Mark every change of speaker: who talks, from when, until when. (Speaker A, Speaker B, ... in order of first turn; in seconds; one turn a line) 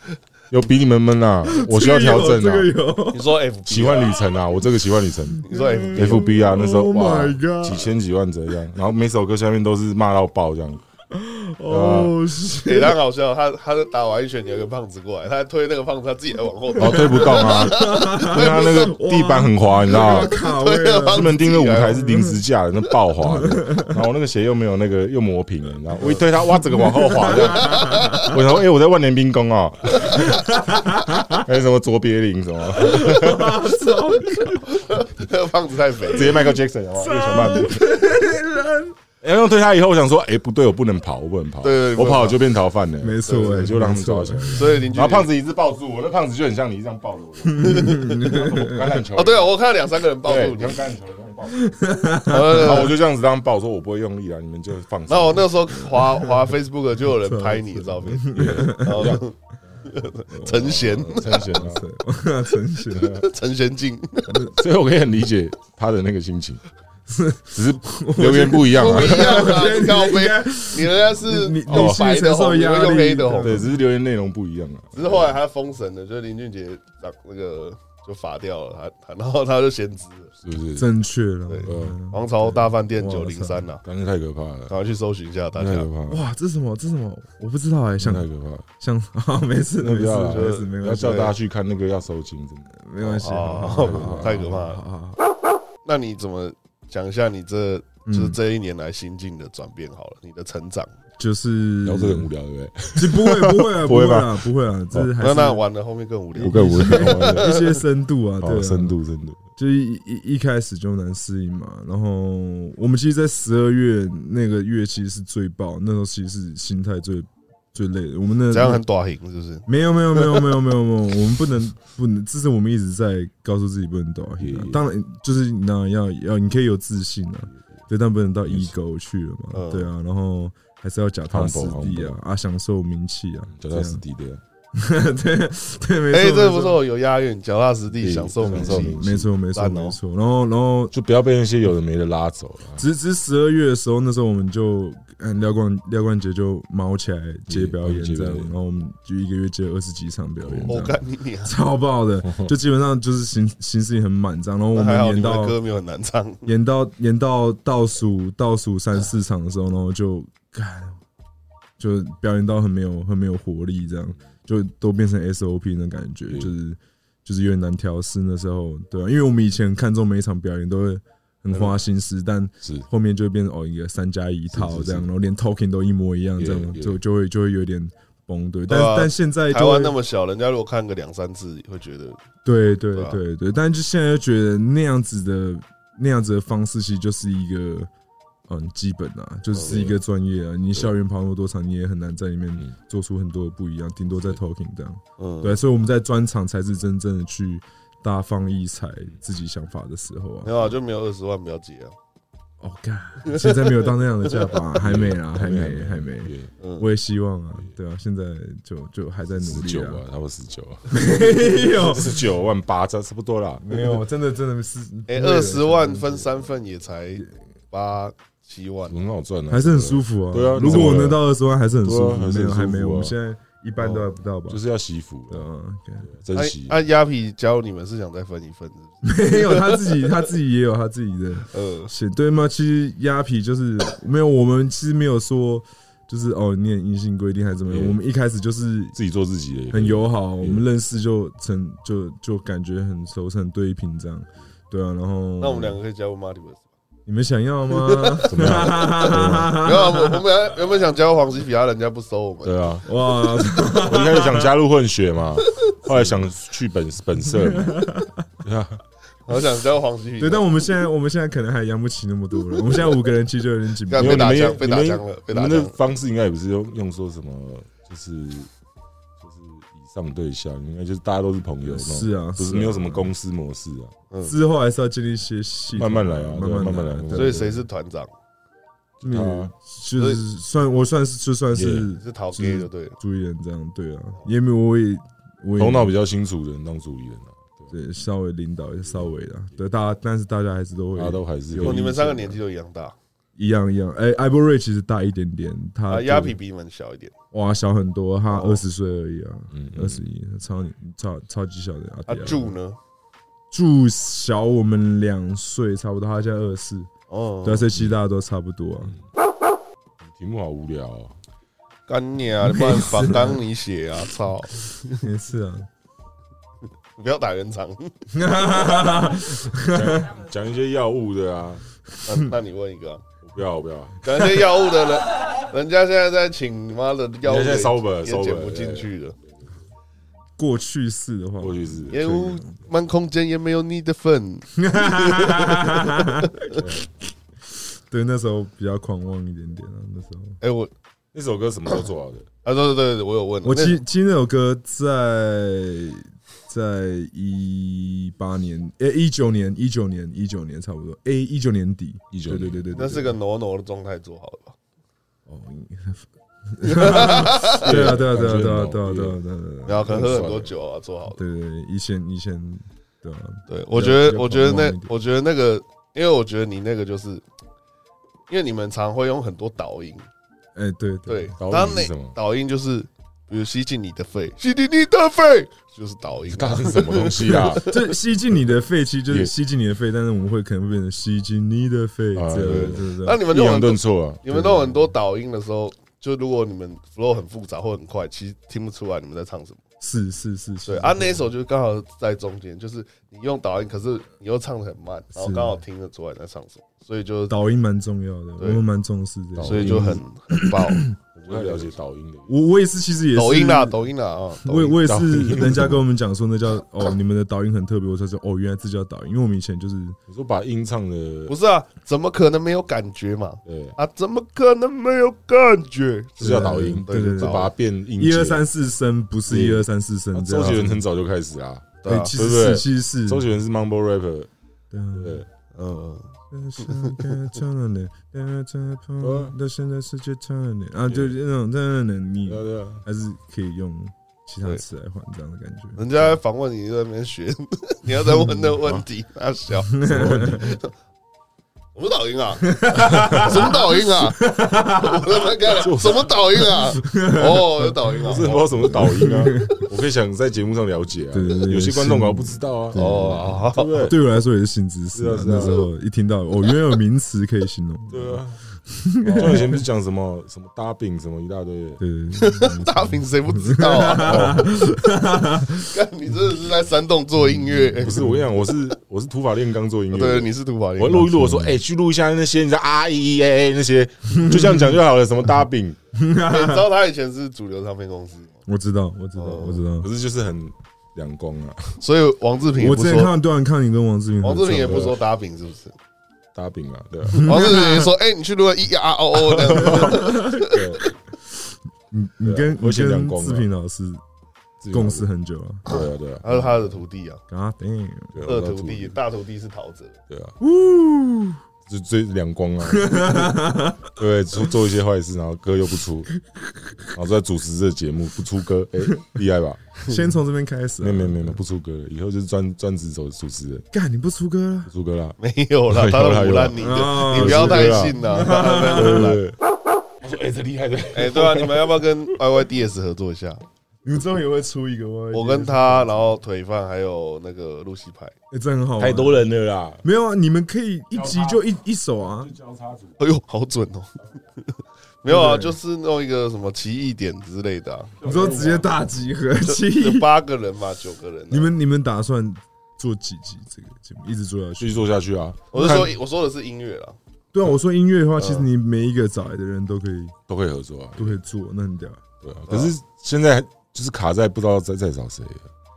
Speaker A: 0.5-2.7
Speaker B: 1.4-3.3
Speaker C: 3.1-4.2
Speaker A: 3.7-10.8
Speaker B: 5.4-7.9
Speaker C: 5.4-6.2
Speaker B: 11.1-13.0
Speaker A: 11.7-12.1
Speaker C: 12.6-18.9
Speaker B: 16.8-21.3
Speaker A: 16.8-20.4
Speaker C: 19.9-22.0
Speaker A: 21.1-30.3
Speaker B: 21.9-22.4
Speaker B: 23.2-24.0
Speaker B: 26.7-28.3
Speaker C: 27.4-28.3
Speaker B: 30.1-31.4
Speaker A: 31.3-33.7
Speaker B: 32.8-34.8
Speaker C: 34.7-36.5
Speaker A: 36.1-37.8
Speaker B: 36.3-39.0
Speaker A: 39.2-49.5
Speaker C: 41.6-42.4
Speaker B: 43.0-44.9
Speaker C: 43.2-43.6
Speaker C: 44.5-45.3
Speaker B: 47.5-48.9
Speaker C: 47.6-48.4
Speaker C: 49.1-50.8
Speaker A: 50.2-51.7
Speaker B: 51.5-52.9
Speaker C: 52.3-52.9
Speaker A: 52.3-55.6
Speaker C: 55.1-61.4
Speaker B: 55.9-56.3
Speaker B: 57.1-59.2
Speaker A: 58.3-59.2
Speaker B: 60.3-63.2
Speaker A: 60.6-61.8
Speaker A: 62.9-63.2
Speaker C: 63.1-64.5
Speaker B: 64.3-64.5
Speaker A: 64.5-66.6
Speaker B: 67.1-73.8
Speaker A: 67.5-69.6
Speaker C: 68.7-73.7
Speaker A: 71.7-72.1
Speaker A: 73.4-75.3
Speaker C: 74.9-80.3
Speaker A: 80.4-80.9
Speaker B: 80.8-83.7
Speaker C: 81.5-83.8
Speaker A: 81.7-82.0
Speaker A: 83.8-84.7
Speaker C: 84.7-85.9
Speaker A: 85.5-86.2
Speaker B: 86.1-88.3
Speaker A: 88.0-88.6
Speaker B: 88.8-91.3
Speaker A: 89.8-92.7
Speaker C: 90.3-91.3
Speaker B: 92.8-95.2
Speaker C: 93.0-94.8
Speaker A: 93.6-94.4
Speaker C: 95.8-100.9
Speaker B: 98.0-98.4
Speaker B: 101.2-102.3
Speaker A: 101.8-105.1
Speaker B: 102.9-105.6
Speaker C: 105.2-107.7
Speaker B: 106.3-109.0
Speaker A: 106.4-107.6
Speaker A: 108.4-109.4
Speaker B: 109.6-118.8
Speaker C: 118.5-120.5
Speaker B: 119.7-134.0
Speaker A: 124.4-124.8
Speaker C: 129.5-129.9
Speaker A: 131.3-132.2
Speaker A: 133.6-134.4
Speaker B: 134.7-136.8
Speaker C: 136.1-140.0
Speaker A: 138.0-139.3
Speaker B: 138.4-140.9
Speaker A: 140.9-142.8
Speaker B: 142.8-155.6
Speaker A: 147.5-148.5
Speaker A: 150.4-150.7
Speaker C: 150.7-151.5
Speaker C: 154.7-156.5
Speaker B: 156.4-161.0
Speaker B: 161.8-179.9
Speaker A: 174.5-175.1
Speaker A: 176.4-177.0
Speaker C: 178.7-182.2
Speaker B: 182.4-187.9
Speaker C: 182.9-183.2
Speaker B: 188.5-200.6
Speaker C: 189.5-189.9
Speaker C: 195.2-195.6
Speaker C: 200.4-201.9
Speaker B: 202.6-210.0
Speaker C: 203.2-204.3
Speaker A: 204.8-206.5
Speaker C: 206.6-206.9
Speaker A: 209.3-213.7
Speaker B: 210.9-212.2
Speaker B: 213.6-216.4
Speaker C: 215.1-219.0
Speaker A: 218.9-221.2
Speaker B: 219.5-224.6
Speaker A: 221.8-223.1
Speaker C: 223.8-224.1
Speaker A: 224.5-225.4
Speaker B: 225.3-226.1
Speaker A: 226.0-226.8
Speaker C: 226.3-230.2
Speaker B: 229.0-239.0
Speaker C: 231.5-231.9
Speaker A: 237.7-238.0
Speaker A: 238.9-240.6
Speaker B: 239.7-245.8
Speaker C: 245.4-246.7
Speaker B: 247.1-250.2
Speaker C: 247.7-248.9
Speaker A: 248.3-249.6
Speaker C: 249.5-252.6
Speaker A: 252.4-252.8
Speaker B: 252.8-254.5
Speaker A: 253.4-257.9
Speaker B: 257.4-258.1
Speaker A: 258.4-258.8
Speaker C: 259.3-260.4
Speaker B: 260.2-264.5
Speaker C: 263.9-265.7
Speaker A: 263.9-268.5
Speaker A: 269.2-273.9
Speaker B: 271.6-273.1
Speaker C: 274.1-274.4
Speaker B: 274.2-277.6
Speaker A: 275.7-277.5
Speaker C: 277.1-278.1
Speaker A: 279.0-279.5
Speaker B: 279.0-285.9
Speaker C: 280.0-280.2
Speaker A: 281.5-281.9
Speaker C: 282.0-283.0
Speaker A: 285.6-287.7
Speaker B: 287.7-291.9
Speaker A: 290.9-292.3
Speaker C: 291.6-292.9
Speaker B: 293.4-296.4
Speaker C: 295.9-297.1
Speaker B: 297.3-302.5
Speaker C: 298.3-298.6
Speaker A: 299.5-300.0
Speaker C: 302.1-302.8
Speaker B: 303.5-306.9
Speaker C: 307.1-307.7
Speaker B: 307.4-308.9
Speaker A: 310.0-311.1
Speaker C: 311.9-315.0
Speaker B: 312.4-313.4
Speaker B: 315.0-315.7
Speaker C: 316.9-317.9
Speaker B: 318.1-320.1
Speaker A: 319.7-321.6
Speaker C: 322.0-323.0
Speaker A: 323.2-324.0
Speaker C: 324.0-329.1
Speaker A: 327.2-328.9
Speaker B: 330.4-332.5
Speaker A: 331.4-332.0
Speaker C: 331.9-336.3
Speaker B: 334.6-336.7
Speaker A: 336.6-336.8
Speaker B: 337.5-340.4
Speaker C: 340.4-340.7
Speaker A: 341.1-342.2
Speaker C: 342.4-343.8
Speaker B: 343.4-353.1
Speaker A: 352.1-352.6
Speaker C: 352.7-354.6
Speaker B: 355.3-360.2
Speaker C: 356.6-357.7
Speaker A: 357.5-359.2
Speaker C: 359.6-361.2
Speaker A: 359.9-360.5
Speaker B: 361.1-364.9
Speaker C: 363.5-367.2
Speaker C: 368.3-370.1
Speaker B: 370.5-371.3
Speaker C: 371.1-377.7
Speaker A: 371.4-372.1
Speaker A: 376.3-377.7
Speaker B: 377.3-383.2
Speaker A: 382.1-384.2
Speaker C: 382.4-389.6
Speaker B: 384.3-384.9
Speaker B: 389.8-391.2
Speaker C: 390.6-397.4
Speaker B: 395.1-395.6
Speaker B: 397.3-401.4
Speaker A: 399.3-400.0
Speaker C: 399.4-400.8
Speaker A: 401.1-402.3
Speaker B: 402.3-403.8
Speaker C: 403.1-404.8
Speaker B: 404.4-410.0
Speaker A: 404.9-405.8
Speaker A: 410.1-411.3
Speaker C: 411.3-417.5
Speaker A: 413.4-413.7
Speaker A: 416.2-418.4
Speaker B: 416.2-420.8
Speaker A: 419.3-424.3
Speaker C: 421.8-422.1
Speaker B: 421.9-423.3
Speaker B: 424.7-425.2
Speaker A: 424.9-425.2
Speaker C: 425.5-427.1
Speaker B: 426.3-436.1
Speaker A: 429.0-429.3
Speaker A: 430.9-431.1
Speaker A: 432.3-432.8
Speaker C: 435.8-440.7
Speaker A: 438.6-438.8
Speaker B: 439.7-440.6
Speaker A: 439.9-440.5
Speaker C: 441.7-449.4
Speaker B: 442.5-445.2
Speaker A: 443.0-443.4
Speaker A: 445.6-446.2
Speaker B: 446.8-449.6
Speaker A: 448.0-454.0
Speaker B: 451.1-459.6
Speaker C: 452.7-453.8
Speaker A: 454.9-455.6
Speaker C: 455.3-455.7
Speaker A: 457.9-458.4
Speaker A: 459.0-461.8
Speaker B: 461.8-465.7
Speaker C: 462.1-464.5
Speaker A: 464.0-464.4
Speaker C: 465.5-468.4
Speaker B: 467.3-468.2
Speaker A: 467.8-475.8
Speaker C: 469.9-471.1
Speaker B: 470.9-471.6
Speaker B: 474.1-474.7
Speaker B: 475.9-476.7
Speaker C: 476.2-478.4
Speaker B: 478.5-479.9
Speaker C: 479.1-479.6
Speaker A: 479.8-481.8
Speaker C: 481.8-483.1
Speaker B: 482.6-484.9
Speaker C: 484.2-485.8
Speaker A: 484.6-484.9
Speaker A: 486.3-487.3
Speaker B: 487.1-487.9
Speaker C: 487.2-490.8
Speaker A: 489.3-490.8
Speaker B: 489.6-490.4
Speaker B: 491.9-494.0
Speaker A: 492.2-493.5
Speaker A: 494.6-495.0
Speaker B: 494.7-495.6
Speaker A: 495.6-496.7
Speaker C: 495.7-497.2
Speaker B: 497.3-498.1
Speaker A: 498.1-498.9
Speaker C: 498.2-500.0
Speaker A: 500.1-500.3
Speaker B: 500.4-501.4
Speaker A: 501.7-503.3
Speaker B: 502.7-503.9
Speaker A: 503.9-506.1
Speaker A: 506.9-509.8
Speaker B: 509.9-511.4
Speaker A: 510.8-513.6
Speaker B: 513.7-514.7
Speaker A: 514.7-515.2
Speaker C: 515.2-519.2
Speaker A: 515.7-518.0
Speaker B: 516.6-519.2
Speaker A: 518.7-519.4
Speaker A: 520.0-521.7
Speaker C: 520.9-523.4
Speaker B: 523.8-526.1
Speaker C: 525.1-528.1
Speaker B: 528.3-529.3
Speaker A: 528.8-529.8
Speaker B: 529.8-532.3
Speaker A: 530.9-531.4
Speaker A: 532.2-533.0
Speaker C: 533.0-538.0
Speaker B: 535.0-535.6
Speaker A: 538.0-538.7
Speaker B: 538.0-540.1
Speaker C: 539.4-541.5
Speaker B: 541.3-544.8
Speaker A: 544.6-545.9
Speaker C: 545.5-547.0
Speaker B: 547.3-550.1
Speaker C: 548.2-548.5
Speaker A: 550.3-551.2
Speaker B: 551.0-552.0
Speaker A: 552.2-555.5
Speaker C: 552.5-552.7